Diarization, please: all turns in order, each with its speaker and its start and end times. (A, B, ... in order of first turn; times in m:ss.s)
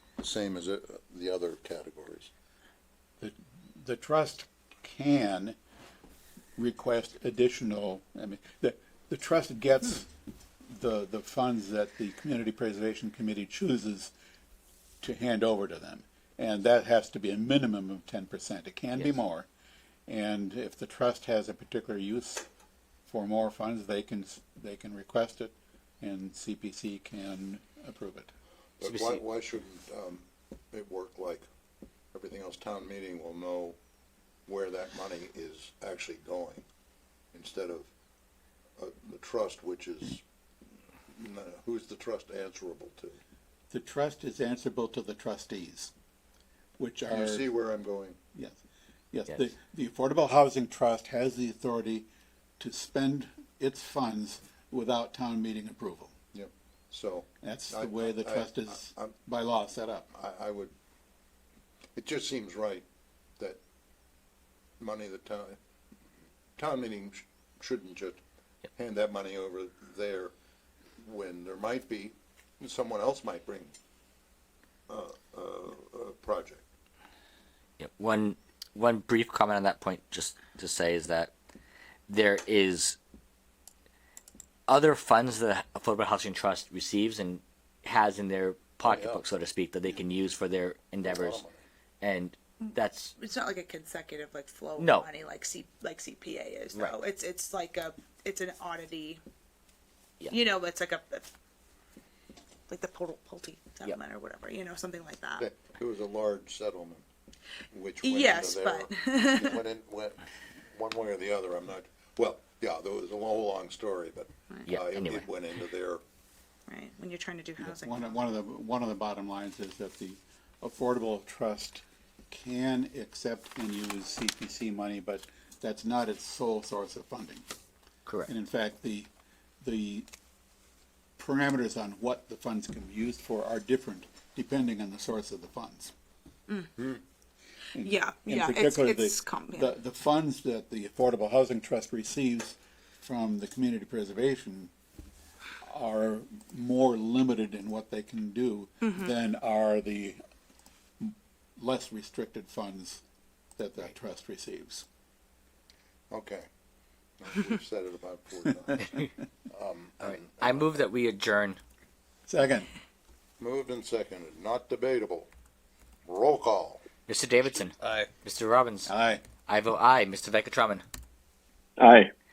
0:00.2-0:02.3 A
0:03.2-0:05.6 B
0:06.6-0:10.1 B
0:10.7-0:14.1 B
0:15.0-0:19.5 B
0:20.1-0:22.5 B
0:23.1-0:28.3 B
0:28.8-0:31.4 A
0:28.8-0:29.2 C
0:32.1-0:33.8 A
0:34.5-0:36.6 A
0:37.3-0:37.9 A
0:38.8-0:40.2 A
0:41.1-0:43.2 A
0:43.7-0:45.9 B
0:46.8-0:47.5 B
0:47.1-0:48.2 A
0:49.1-0:52.1 B
0:52.6-0:56.1 B
0:56.3-0:59.1 A
0:57.4-1:00.1 B
1:00.1-1:00.7 A
1:02.0-1:02.8 A
1:04.8-1:05.6 A
1:06.6-1:08.2 A
1:08.8-1:10.3 A
1:11.0-1:13.7 A
1:14.9-1:16.7 A
1:17.8-1:21.3 C
1:22.1-1:23.0 C
1:24.7-1:31.4 C
1:28.8-1:29.2 A
1:31.0-1:31.6 A
1:32.0-1:33.1 C
1:33.2-1:39.2 D
1:34.8-1:35.1 C
1:40.3-1:41.3 D
1:42.7-1:45.5 D
1:45.4-1:47.0 A
1:47.7-1:56.0 A
1:48.0-1:49.6 D
1:54.7-1:55.3 C
1:56.7-1:58.2 D
1:57.6-2:07.5 B
2:08.0-2:08.3 C
2:08.3-2:09.1 B
2:09.6-2:10.1 B
2:11.2-2:15.9 B
2:17.7-2:24.7 B
2:17.8-2:19.8 D
2:25.6-2:30.2 B
2:28.8-2:29.1 D
2:31.0-2:33.0 B
2:33.6-2:34.8 B
2:36.1-2:36.5 A
2:37.2-2:40.8 A
2:40.0-2:41.6 C
2:42.3-2:42.7 B
2:43.4-2:45.3 A
2:46.1-2:46.8 A
2:47.1-2:48.9 C
2:47.8-2:48.1 A
2:48.9-2:49.2 B
2:49.5-2:50.8 C